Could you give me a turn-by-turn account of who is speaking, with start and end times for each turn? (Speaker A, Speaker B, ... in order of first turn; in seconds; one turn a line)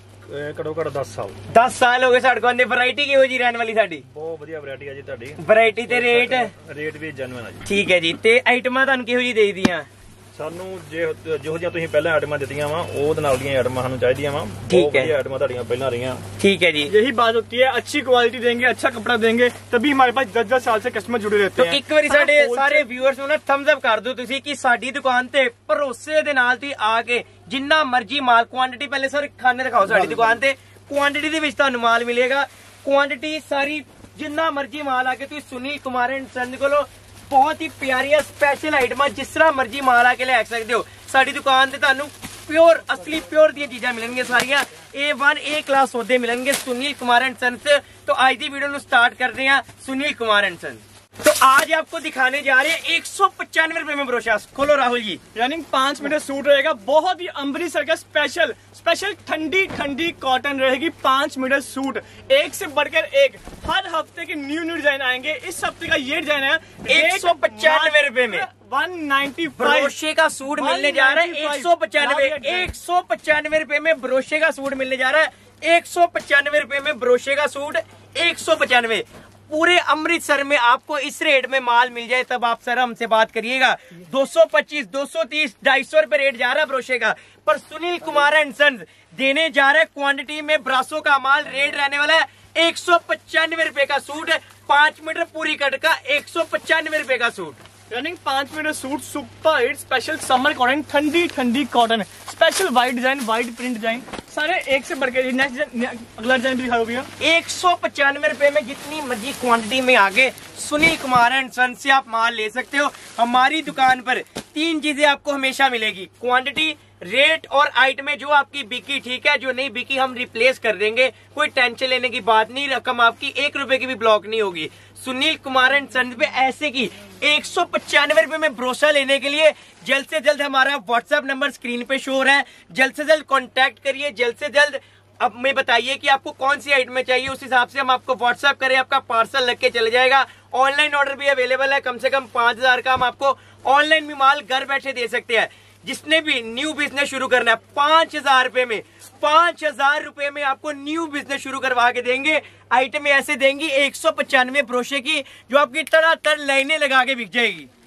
Speaker A: 0.3-1.4
Speaker B: 1.5-4.0
Speaker A: 4.1-7.7
Speaker B: 5.4-6.5
Speaker B: 7.6-9.9
Speaker A: 10.3-16.2
Speaker B: 14.7-15.1
Speaker B: 16.4-16.9
Speaker C: 16.9-22.8
Speaker B: 21.6-55.2
Speaker C: 55.3-69.9
Speaker B: 66.9-68.5
Speaker B: 69.5-97.6
Speaker C: 70.5-72.7
Speaker C: 97.9-107.1
Speaker B: 107.2-157.7